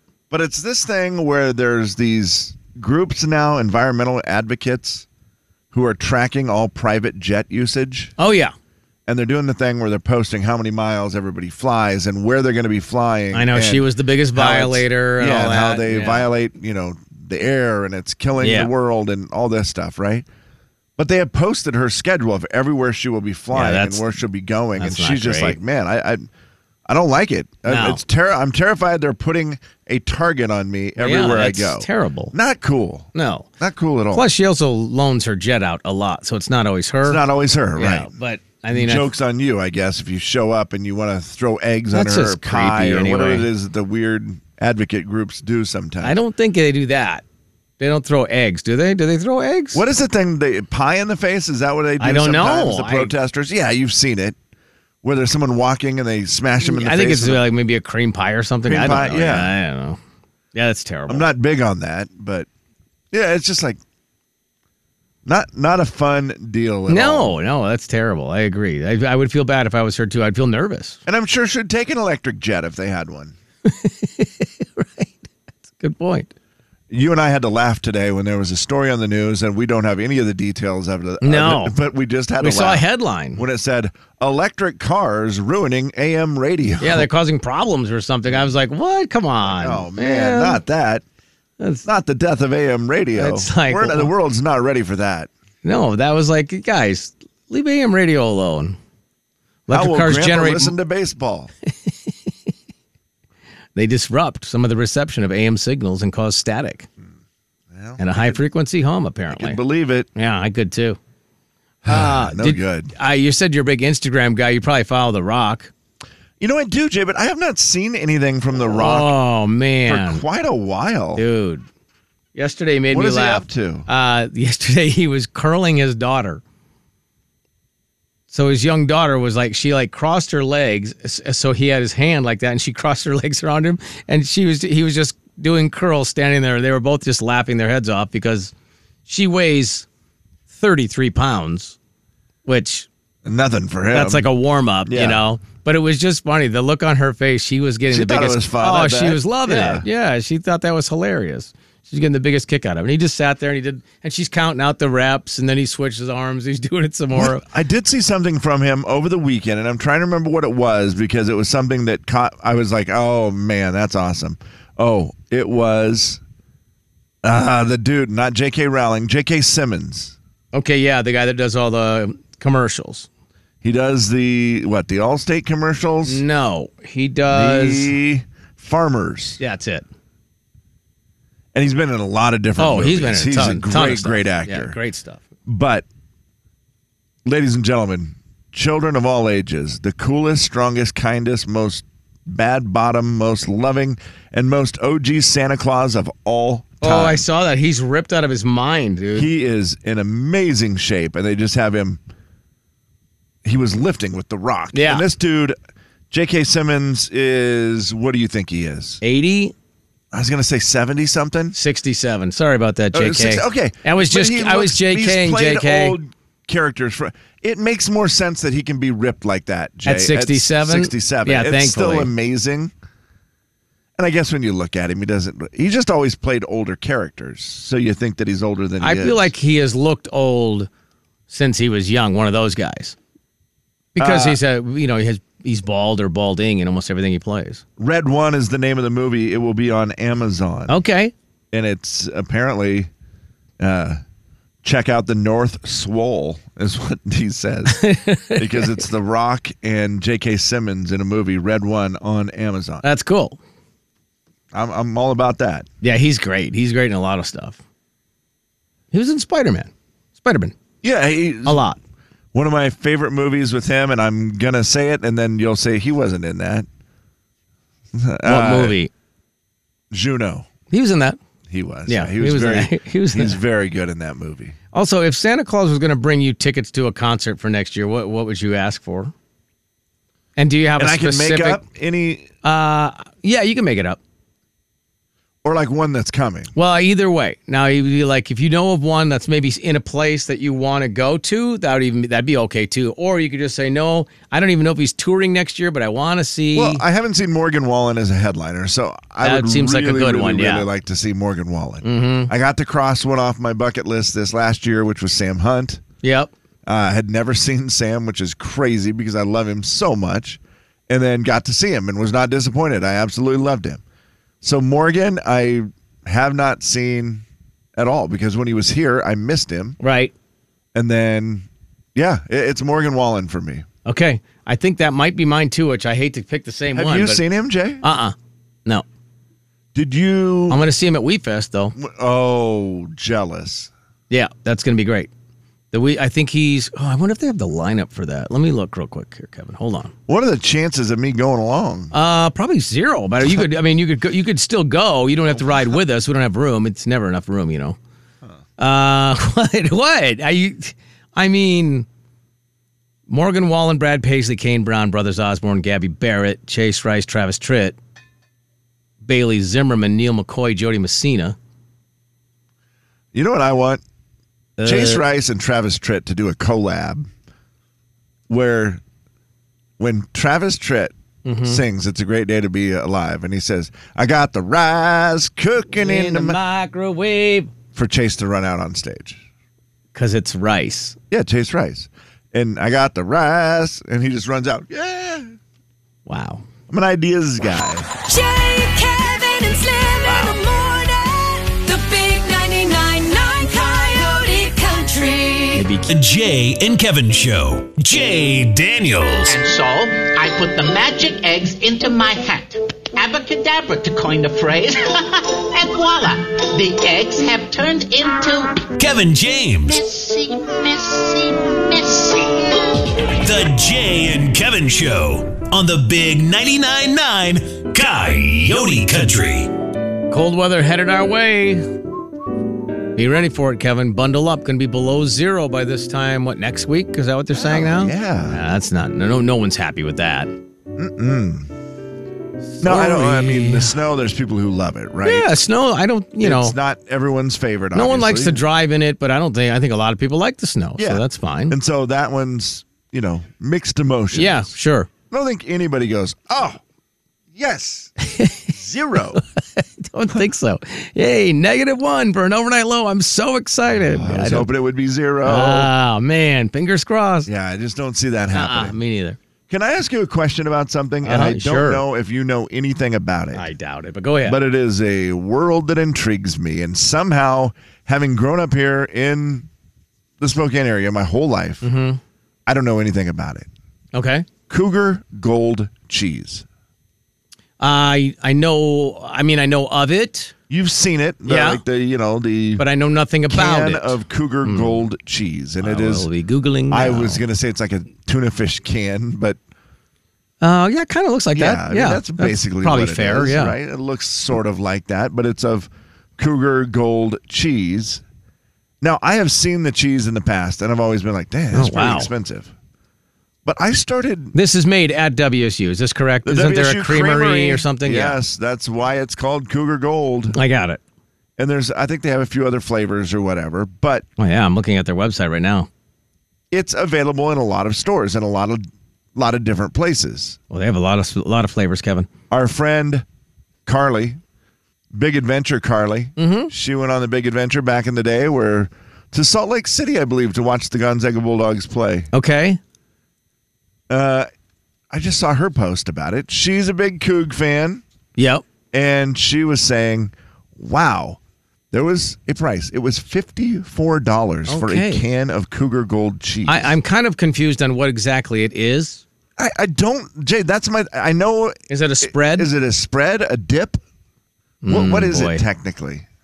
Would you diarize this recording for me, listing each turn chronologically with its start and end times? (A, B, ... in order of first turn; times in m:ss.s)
0:00.3-0:05.1 A
0:05.7-0:08.1 A
0:08.2-0:08.5 B
0:09.1-0:20.3 A
0:13.3-0:16.3 B
0:18.4-0:18.7 B
0:21.0-0:26.3 A
0:23.5-0:24.1 B
0:24.8-0:25.6 B
0:26.9-0:34.3 A
0:27.6-0:28.0 B
0:31.0-0:32.3 B
0:33.2-0:33.5 B
0:34.1-0:37.2 B
0:37.0-0:38.1 A
0:37.8-0:39.1 B
0:38.7-0:46.2 A
0:41.9-0:43.5 B
0:46.0-0:47.2 B
0:47.8-0:49.8 B
0:49.7-0:54.4 A
0:52.0-0:53.1 B
0:55.0-0:57.5 A
0:56.6-1:00.0 B
0:58.6-0:59.5 A
1:00.5-1:01.3 B
1:01.1-1:02.5 A
1:03.1-1:03.8 A
1:05.3-1:07.4 A
1:06.9-1:11.0 B
1:11.1-1:13.4 A
1:13.6-1:16.3 B
1:16.9-1:27.1 A
1:21.2-1:21.8 B
1:22.4-1:23.4 B
1:26.8-1:30.6 B
1:29.5-1:31.0 A
1:31.6-1:31.9 B
1:31.8-1:35.3 A
1:33.2-1:34.1 B
1:35.6-1:38.8 B
1:39.7-1:40.8 B
1:39.7-1:41.5 A
1:43.8-1:46.9 B
1:47.7-1:48.4 A
1:48.0-1:49.6 B
1:49.3-1:50.1 A
1:50.2-1:51.0 B
1:51.8-1:52.9 A
1:51.9-1:55.7 B
1:56.4-1:59.1 A
1:58.6-2:00.2 B
1:59.9-2:01.2 A
2:01.2-2:01.7 B
2:02.4-2:06.4 B
2:02.9-2:03.9 A
2:08.3-2:18.5 B
2:19.1-2:19.9 B
2:20.5-2:21.8 B
2:22.5-2:22.9 B
2:23.2-2:24.3 A
2:23.9-2:37.4 B
2:24.8-2:25.2 A
2:27.9-2:29.9 A
2:37.1-2:46.2 A
2:47.2-2:50.2 A
2:50.5-2:53.1 B
2:53.6-2:56.2 A
2:56.0-2:58.0 B
2:57.3-2:59.4 A
2:59.4-2:59.8 B
3:01.5-3:04.8 A
3:02.6-3:05.2 B
3:05.5-3:05.9 A
3:07.2-3:17.2 A
3:16.8-3:19.3 B
3:19.2-3:22.0 A
3:23.4-3:25.6 A
3:24.7-3:25.1 B
3:26.1-3:29.0 A
3:29.0-3:29.5 B
3:30.1-3:31.6 A
3:31.5-3:36.0 B
3:32.9-3:42.7 A
3:39.8-3:42.1 B
3:44.0-3:49.3 A
3:48.8-3:50.7 B
3:51.3-3:53.0 B
3:54.0-3:57.6 B
3:54.0-3:54.4 A
3:57.8-4:00.8 A
4:00.7-4:01.1 B
4:01.5-4:02.9 A
4:03.6-4:04.0 A
4:04.6-4:12.8 A
4:07.7-4:08.8 B
4:12.8-4:13.4 B
4:14.5-4:15.7 A
4:15.8-4:17.6 B
4:18.9-4:20.6 B
4:20.8-4:21.6 A
4:21.4-4:21.8 B
4:22.3-4:26.7 A
4:27.9-4:28.8 A
4:28.2-4:28.9 B
4:29.9-4:30.5 A
4:30.7-4:31.2 B
4:31.5-4:34.6 A
4:31.9-4:33.4 B
4:34.7-4:39.1 B
4:40.4-4:41.6 B
4:40.8-4:42.3 A
4:42.4-4:44.0 B
4:45.4-4:46.5 A
4:46.6-4:56.8 B
4:56.5-5:05.8 A
4:59.2-5:00.7 B
5:01.8-5:02.3 B
5:06.0-5:06.3 B
5:06.7-5:13.8 A
5:14.4-5:17.2 A
5:17.8-5:19.8 A
5:19.8-5:20.1 B
5:20.7-5:23.7 A
5:23.9-5:27.2 B
5:26.7-5:27.8 A
5:27.8-5:28.2 B
5:29.7-5:30.6 A
5:30.5-5:31.8 B
5:31.8-5:33.7 A
5:34.1-5:35.1 B
5:35.7-5:39.9 B
5:40.1-5:41.9 A
5:41.9-5:47.8 B
5:45.4-5:45.6 A
5:48.6-5:51.9 B
5:53.1-5:57.8 B
5:59.0-6:01.4 B
6:03.1-6:03.8 A
6:04.6-6:05.0 B
6:04.6-6:07.1 A
6:08.3-6:08.8 A
6:09.8-6:16.4 A
6:11.2-6:11.6 B
6:15.7-6:17.5 B
6:17.8-6:19.2 A
6:20.0-6:21.0 B
6:21.1-6:25.4 A
6:26.1-6:26.4 B
6:26.7-6:27.9 A
6:28.1-6:35.7 C
6:30.0-6:30.4 B
6:35.5-6:35.9 B
6:35.9-6:39.4 D
6:39.3-6:48.6 E
6:48.8-6:49.8 D
6:49.7-6:52.8 E
6:53.2-6:59.5 D
7:00.1-7:01.7 B
7:03.0-7:10.3 B
7:07.4-7:08.4 A
7:10.8-7:11.5 A
7:12.5-7:13.8 B
7:12.6-7:15.3 A
7:15.0-7:16.6 B
7:16.2-7:18.4 A
7:17.7-7:21.6 B
7:20.8-7:24.5 A
7:24.1-7:24.9 B
7:25.1-7:26.6 A
7:27.3-7:27.9 A
7:28.0-7:28.5 B
7:28.5-7:29.2 A
7:29.2-7:34.5 B
7:33.7-7:35.7 A
7:35.2-7:37.3 B
7:37.3-7:38.8 A
7:38.3-7:39.2 B
7:39.5-7:43.5 A
7:41.0-7:41.8 B
7:43.3-7:44.4 B
7:44.2-7:49.5 A
7:50.2-7:51.6 A
7:51.6-7:52.0 B
7:52.5-7:53.5 A
7:53.9-7:54.3 B
7:54.5-7:56.4 A
7:57.6-8:00.3 B
8:00.5-8:02.6 A
8:01.3-8:01.6 B
8:02.6-8:04.8 B
8:03.3-8:06.1 A
8:05.6-8:07.2 B
8:06.7-8:09.4 A
8:10.4-8:13.6 B
8:11.3-8:18.0 A
8:18.8-8:22.5 A
8:21.5-8:22.1 B
8:23.4-8:24.3 A
8:24.3-8:28.2 B
8:26.2-8:30.4 A
8:30.3-8:30.8 B
8:31.4-8:34.1 A
8:34.2-8:35.7 B
8:36.5-8:40.4 A
8:40.5-8:42.1 B
8:42.3-8:43.0 A
8:43.7-8:44.2 A
8:44.9-8:52.1 A
8:46.2-8:46.5 B
8:52.1-8:52.6 B
8:53.9-8:54.3 A
8:54.9-8:57.8 A
8:58.2-8:58.4 B
8:58.7-9:01.2 A
9:01.7-9:06.8 A
9:04.5-9:05.0 B
9:06.5-9:09.0 B
9:09.4-9:13.8 A
9:11.7-9:12.5 B
9:14.6-9:15.4 B
9:14.7-9:16.1 A